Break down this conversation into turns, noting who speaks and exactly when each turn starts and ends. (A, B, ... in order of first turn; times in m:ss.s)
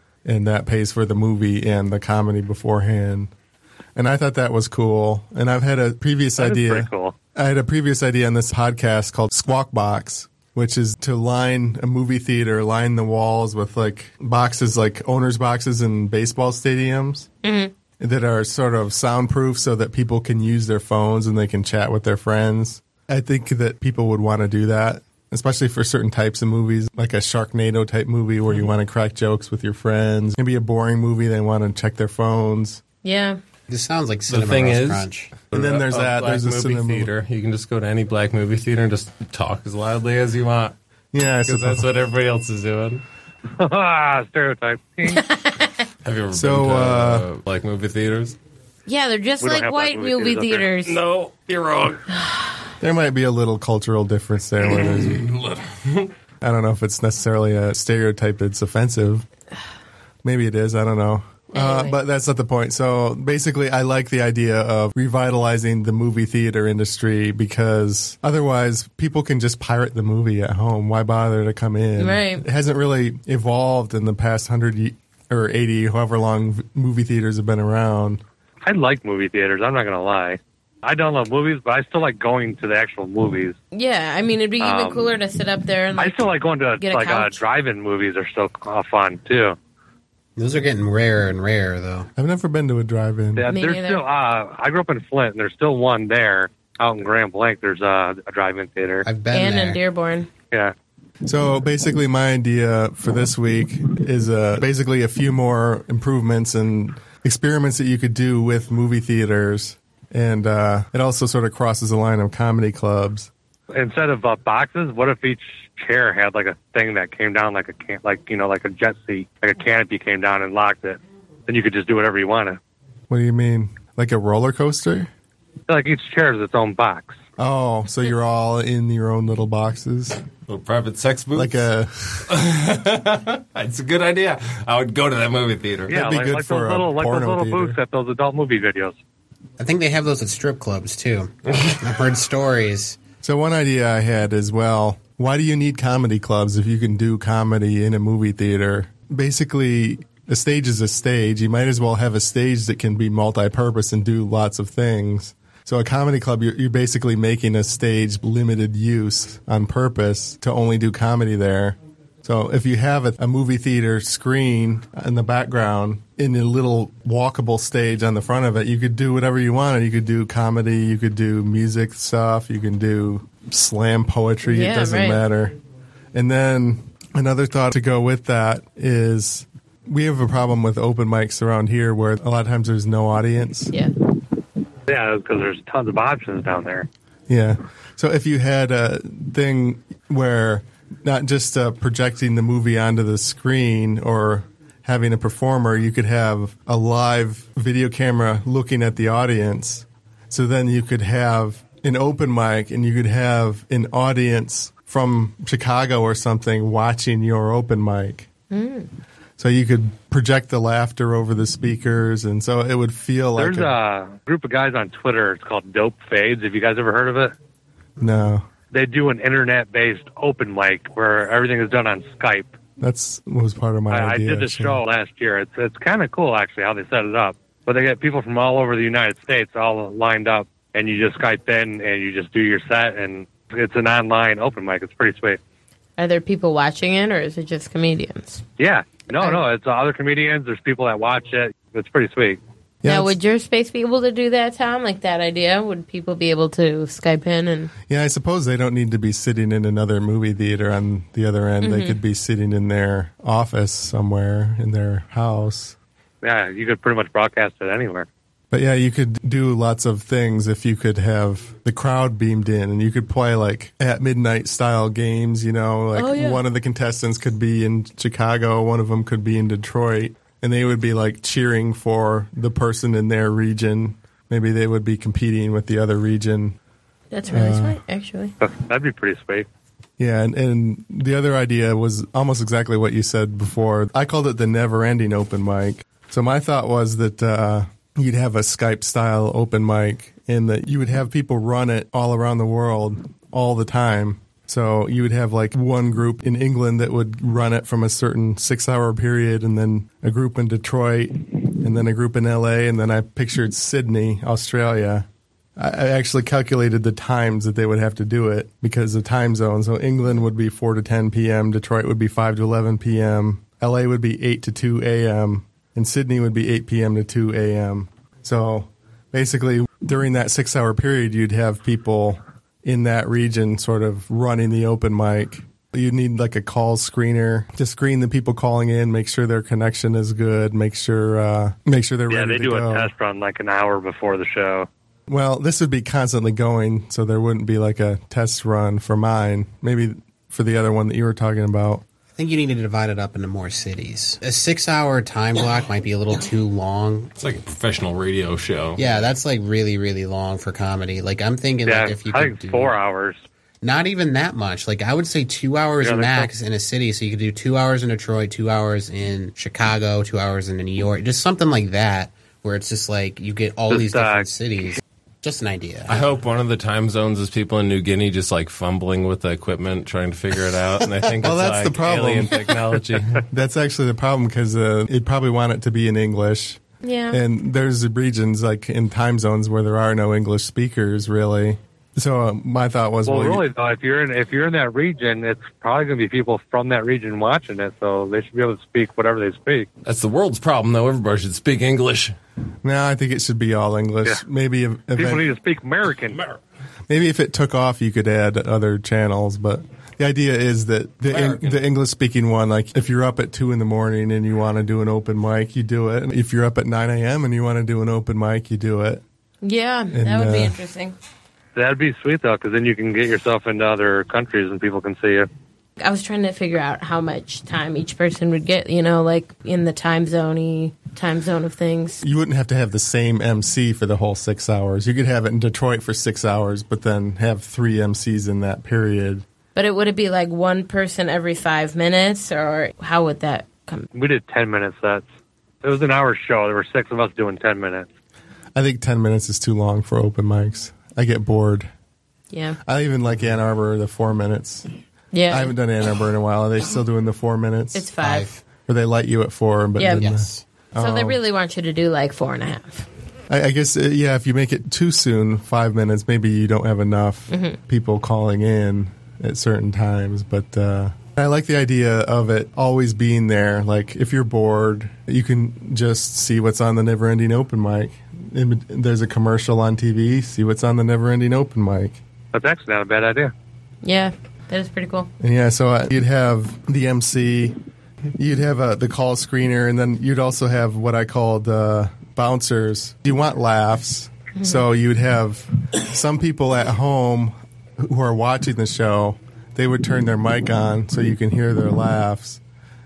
0:00.2-0:03.3 A
0:04.0-0:17.3 A
0:06.4-0:07.2 B
0:17.4-0:17.7 C
0:18.0-0:32.8 A
0:33.0-0:33.4 C
0:33.7-0:35.3 D
0:34.3-0:40.8 E
0:35.5-0:37.1 A
0:41.1-0:41.9 A
0:41.4-0:43.0 E
0:43.6-0:45.3 B
0:45.1-0:45.8 C
0:46.0-0:48.4 E
0:46.3-0:47.3 A
0:48.9-0:51.0 C
0:49.4-0:50.7 B
0:50.8-0:52.1 E
0:52.1-0:52.6 C
0:52.8-0:55.3 A
0:54.7-0:56.1 E
0:56.4-0:59.3 A
1:00.2-1:18.2 A
1:01.5-1:02.0 C
1:12.0-1:12.4 C
1:18.6-1:23.6 B
1:23.7-1:27.4 C
1:24.6-1:25.2 B
1:26.0-1:29.6 B
1:30.4-1:32.1 D
1:32.2-1:33.5 A
1:33.4-1:39.1 B
1:33.5-1:34.0 C
1:39.0-1:39.8 D
1:39.3-1:40.3 C
1:41.3-1:53.3 A
1:53.7-2:02.6 B
2:03.1-2:05.1 A
2:05.7-2:07.2 B
2:07.4-2:10.2 A
2:10.5-2:11.7 E
2:11.4-2:12.2 A
2:12.3-2:16.0 E
2:15.9-2:17.8 A
2:15.9-2:19.0 B
2:19.6-2:23.0 D
2:23.2-2:55.6 A
2:54.4-2:55.2 C
2:56.1-3:03.7 A
3:04.9-3:06.9 B
3:07.3-3:28.3 A
3:28.5-3:28.9 C
3:29.4-3:33.7 A
3:33.4-3:37.3 B
3:38.0-3:38.5 A
3:38.7-3:42.5 B
3:42.8-3:44.8 A
3:43.9-3:55.4 B
3:56.0-3:58.4 C
3:58.6-4:02.4 B
4:02.8-4:03.2 A
4:02.8-4:07.7 C
4:07.9-4:15.8 A
4:11.6-4:12.0 C
4:16.2-4:18.1 B
4:18.5-4:36.6 A
4:25.9-4:26.4 C
4:37.1-4:38.4 C
4:37.3-4:37.8 A
4:38.4-4:39.5 B
4:40.0-5:05.1 A
5:05.6-5:32.9 A
5:32.1-5:34.7 B
5:35.1-5:41.8 A
5:42.2-5:47.1 D
5:47.2-5:49.1 E
5:48.8-5:52.8 D
5:51.6-5:53.2 B
5:53.6-6:06.0 D
5:55.8-5:56.3 B
6:03.7-6:04.3 B
6:05.9-6:13.2 E
6:11.2-6:12.6 A
6:13.2-6:23.4 A
6:16.8-6:17.2 C
6:23.0-6:29.7 B
6:29.8-6:32.2 E
6:32.6-6:35.2 A
6:35.0-6:36.2 B
6:36.9-6:49.0 A
6:41.1-6:41.6 E
6:49.4-6:51.0 C
6:49.9-6:50.6 A
6:51.6-6:55.3 B
6:55.8-7:02.0 C
7:02.0-7:09.3 A
7:09.6-7:13.9 C
7:13.9-7:15.1 B
7:15.6-7:17.9 B
7:18.6-7:21.7 A
7:22.3-7:22.6 C
7:22.6-7:24.7 A
7:25.1-7:25.5 C
7:25.3-7:27.9 A
7:27.7-7:28.3 C
7:28.0-7:28.4 D
7:28.6-7:31.2 A
7:29.8-7:30.1 C
7:29.9-7:30.4 D
7:30.8-7:32.9 C
7:33.3-7:52.0 A
7:37.3-7:37.6 C
7:52.3-7:53.3 B
7:53.8-7:55.1 C
7:55.2-7:57.6 A
7:58.2-8:12.4 A
8:04.4-8:04.6 C